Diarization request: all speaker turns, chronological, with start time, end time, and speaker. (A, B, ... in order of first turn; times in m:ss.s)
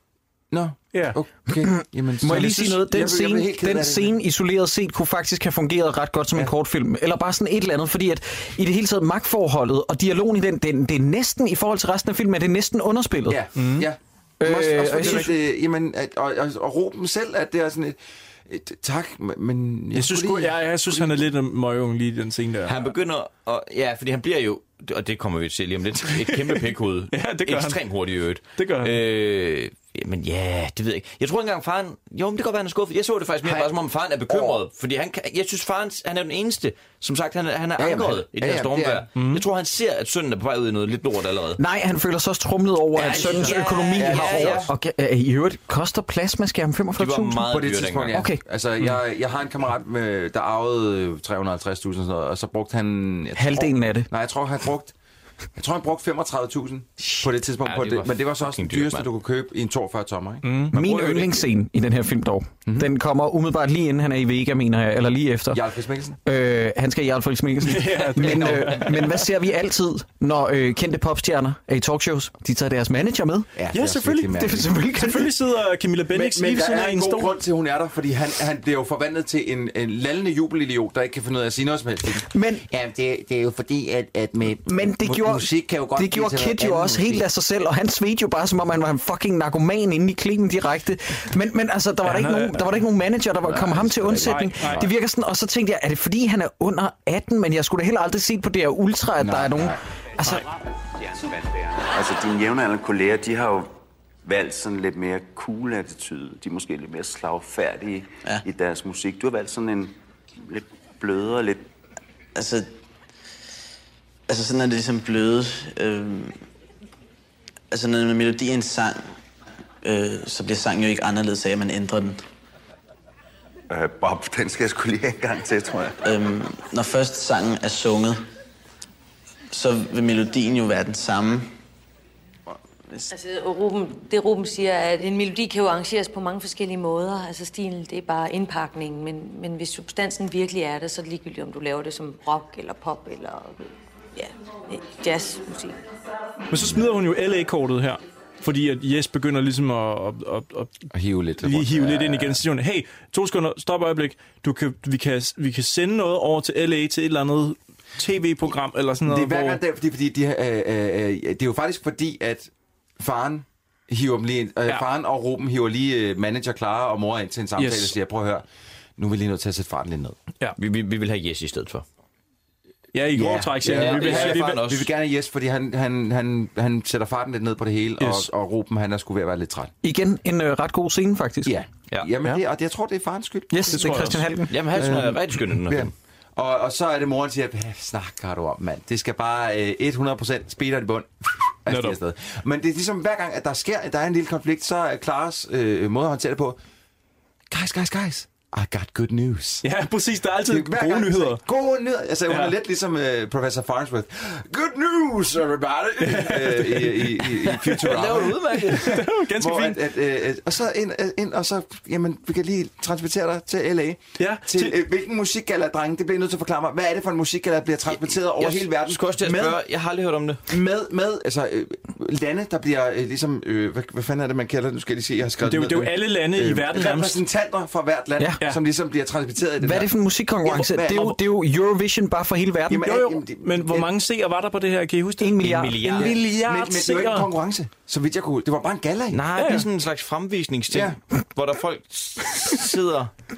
0:00.5-0:04.2 A
0:01.6-0:13.4 B
0:13.3-0:21.2 A
0:13.6-0:13.9 C
0:14.4-0:15.3 B
0:14.9-0:15.3 C
0:19.9-0:22.8 C
0:22.6-0:41.6 D
0:26.3-0:26.6 C
0:27.1-0:27.8 C
0:28.6-0:28.9 C
0:33.4-0:33.7 A
0:34.3-0:34.6 A
0:37.8-0:39.0 A
0:39.2-0:39.4 C
0:41.6-0:47.5 B
0:43.0-0:44.7 D
0:43.0-0:44.7 A
0:47.0-0:48.2 D
0:47.4-0:54.9 A
0:48.1-0:48.4 B
0:53.4-0:54.1 B
0:55.6-1:00.7 A
0:57.6-0:59.1 D
1:00.4-1:01.2 C
1:00.7-1:05.6 B
1:05.5-1:06.2 A
1:06.2-1:13.5 B
1:07.6-1:09.2 C
1:08.2-1:08.7 A
1:13.6-1:14.7 A
1:13.7-1:17.4 C
1:14.3-1:15.3 B
1:16.1-1:27.3 A
1:22.3-1:22.6 B
1:24.6-1:40.4 B
1:32.0-1:32.7 C
1:33.5-1:34.9 A
1:34.2-1:34.9 C
1:39.2-1:39.8 A
1:41.9-1:43.7 E
1:44.3-1:49.9 E
1:50.5-1:51.6 E
1:52.3-1:52.7 F
1:54.3-1:56.4 F
1:57.7-1:59.1 F
1:59.8-2:02.2 F
2:03.7-2:05.9 E
2:06.0-2:08.2 F
2:09.5-2:11.5 F
2:13.1-2:25.8 G
2:26.5-2:30.8 C
2:30.9-2:32.4 A
2:31.4-2:39.6 C
2:39.0-2:48.4 A
2:47.6-2:47.9 C
2:49.0-2:50.2 A
2:50.6-2:51.8 D
2:52.9-2:54.6 C
2:53.1-2:59.7 A
2:53.6-2:54.9 D
2:58.0-2:58.3 C
2:59.8-3:01.6 B
3:01.4-3:04.0 A
3:03.5-3:04.5 B
3:03.7-3:04.3 C
3:04.5-3:05.9 D
3:04.7-3:16.6 A
3:11.7-3:12.0 C
3:17.5-3:19.6 A
3:19.6-3:21.4 C
3:20.5-3:39.6 A
3:26.0-3:27.0 C
3:27.7-3:29.0 D
3:28.7-3:29.8 C
3:34.2-3:34.8 C
3:38.1-3:40.4 D
3:40.5-3:51.2 A
3:45.4-3:47.2 C
3:49.6-3:53.0 B
3:52.7-3:53.9 A
3:52.8-3:57.3 C
3:55.2-3:56.0 B
3:55.4-3:56.2 D
3:56.0-3:59.2 A
3:59.1-4:03.1 D
3:59.3-3:59.7 C
4:00.7-4:01.0 A